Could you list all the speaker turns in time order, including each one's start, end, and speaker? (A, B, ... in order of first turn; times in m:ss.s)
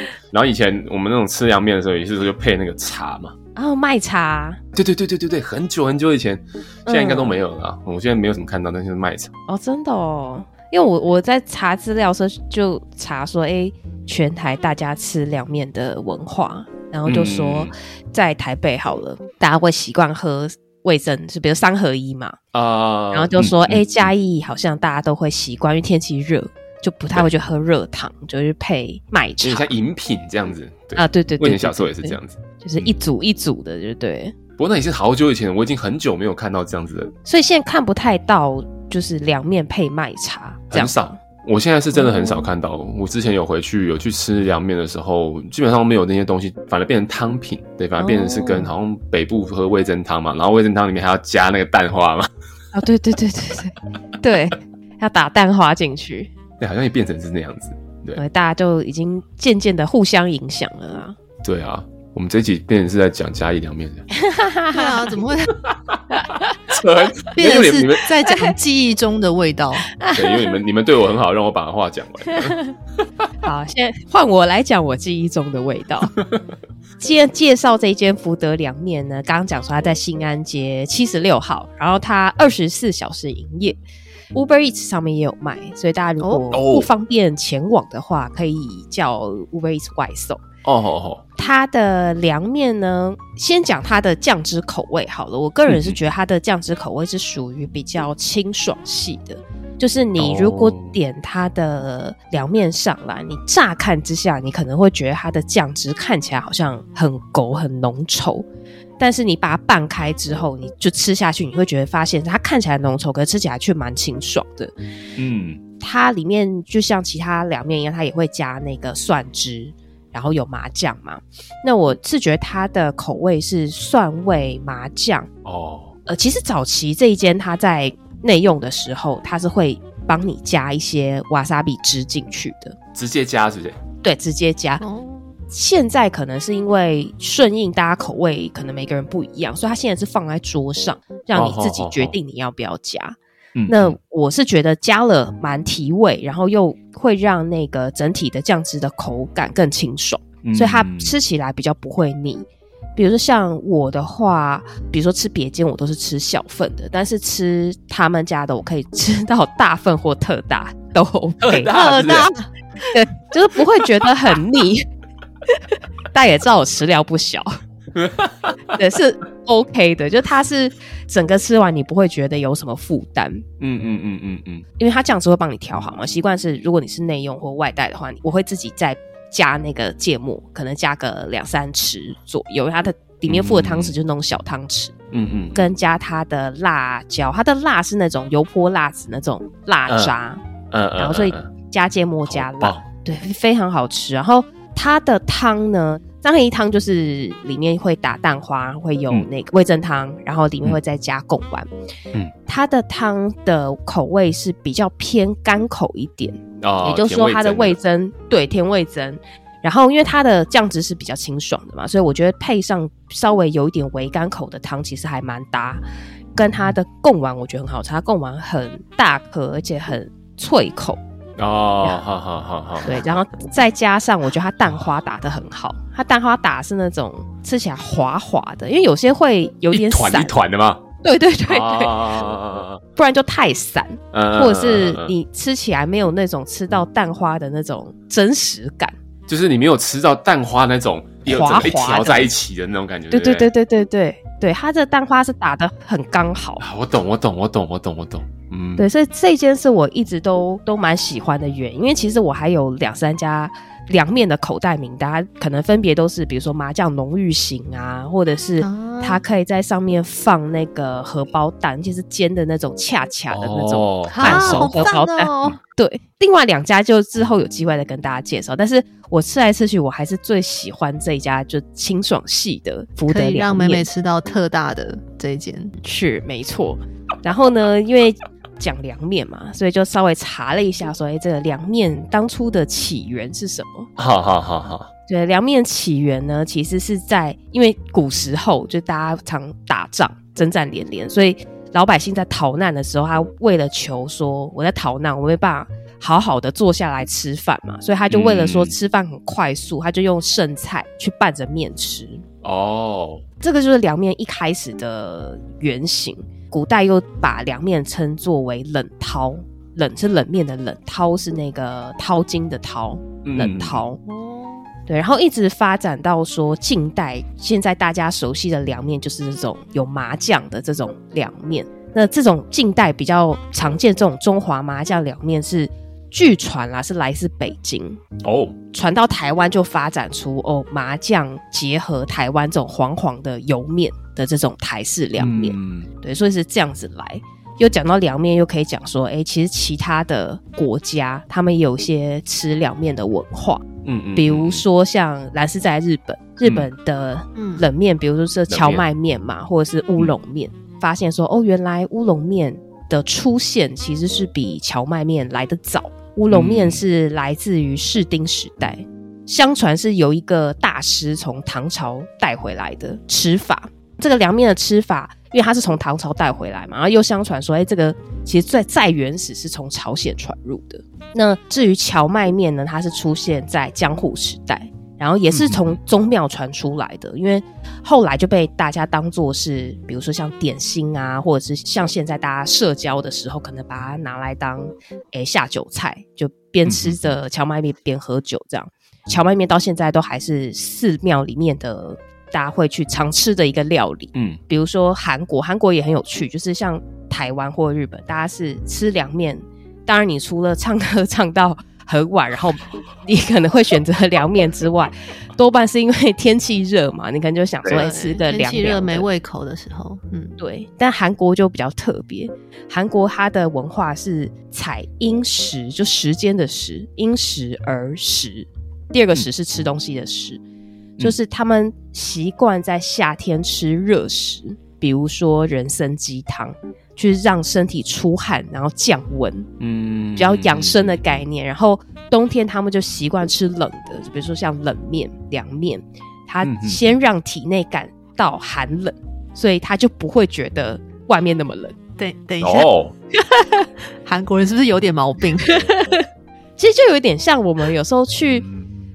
0:00.3-0:03.3 A
0:03.6-0:04.6 B
0:04.8-0:09.3 A
0:06.9-0:07.4 B
0:09.5-0:22.4 B
0:17.1-0:17.7 A
0:22.5-0:23.8 A
0:23.1-0:29.7 B
0:29.4-0:32.9 A
0:31.0-0:34.3 B
0:34.6-0:37.1 A
0:37.3-0:41.2 B
0:40.7-0:52.3 A
0:41.9-0:42.5 B
0:48.0-0:48.7 B
0:52.7-0:56.3 B
0:56.6-0:58.2 A
0:58.2-1:01.2 B
1:01.4-1:04.0 A
1:04.1-1:05.0 B
1:04.7-1:05.5 C
1:05.7-1:06.0 A
1:06.1-1:06.6 B
1:06.7-1:08.1 A
1:07.3-1:09.9 C
1:10.0-1:10.6 B
1:10.1-1:12.6 A
1:12.3-1:12.7 B
1:13.4-1:16.1 B
1:17.0-1:23.8 B
1:24.3-1:30.4 B
1:26.2-1:26.5 C
1:26.5-1:26.9 A
1:30.6-1:31.2 A
1:31.4-1:48.5 B
1:35.7-1:36.0 A
1:40.2-1:41.0 A
1:49.0-1:54.7 B
1:55.2-1:55.6 A
1:55.8-2:05.3 B
2:05.4-2:06.0 A
2:06.1-2:12.8 B
2:12.9-2:13.8 A
2:14.0-2:14.8 B
2:14.8-2:15.3 C
2:15.5-2:23.2 B
2:21.4-2:22.2 A
2:23.6-2:24.0 A
2:23.7-2:41.7 B
2:30.4-2:31.2 A
2:41.4-2:42.3 A
2:41.7-2:42.5 C
2:42.9-2:44.9 B
2:46.1-2:47.6 B
2:48.0-2:48.8 A
2:48.7-2:53.4 B
2:53.6-2:54.6 A
2:54.8-3:04.9 B
3:03.3-3:04.0 A
3:05.1-3:05.7 A
3:05.5-3:10.4 B
3:09.9-3:10.1 A
3:10.7-3:11.5 A
3:11.0-3:21.7 B
3:12.3-3:12.9 A
3:22.5-3:35.8 B
3:26.6-3:27.8 A
3:36.4-3:41.0 B
3:41.4-3:43.1 A
3:42.8-3:50.3 B
3:49.7-3:50.8 A
3:51.0-3:52.3 B
3:51.5-3:52.8 A
3:53.0-3:59.0 B
3:54.1-3:55.1 A
3:59.3-4:03.5 A
4:01.3-4:02.3 B
4:03.1-4:06.6 B
4:06.6-4:08.9 A
4:08.8-4:33.9 B
4:18.6-4:19.2 C
4:23.3-4:24.9 A
4:24.1-4:25.6 C
4:33.1-4:35.8 C
4:35.8-4:43.9 B
4:44.0-4:44.9 A
4:45.1-5:02.2 B
4:58.1-4:58.7 A
5:02.4-5:03.2 A
5:03.4-5:14.0 B
5:13.2-5:13.8 A
5:14.1-5:14.6 C
5:14.9-5:28.0 B
5:28.2-5:28.6 A
5:28.7-5:43.6 B
5:35.2-5:35.9 A
5:43.8-5:44.6 A
5:44.2-6:49.1 B
5:47.4-5:47.6 C
5:48.5-5:48.8 A
5:56.3-5:56.8 A
6:15.3-6:15.7 A
6:26.7-6:27.0 A
6:34.2-6:34.4 A
6:47.7-6:50.4 C
6:50.4-7:00.4 B
7:01.0-7:09.5 B
7:09.6-7:11.0 A
7:10.2-7:21.8 B
7:16.4-7:16.8 A
7:22.0-7:22.7 C
7:22.4-7:22.9 A
7:23.4-7:25.6 C
7:25.5-7:26.0 B
7:26.6-7:28.5 B
7:28.3-7:28.7 A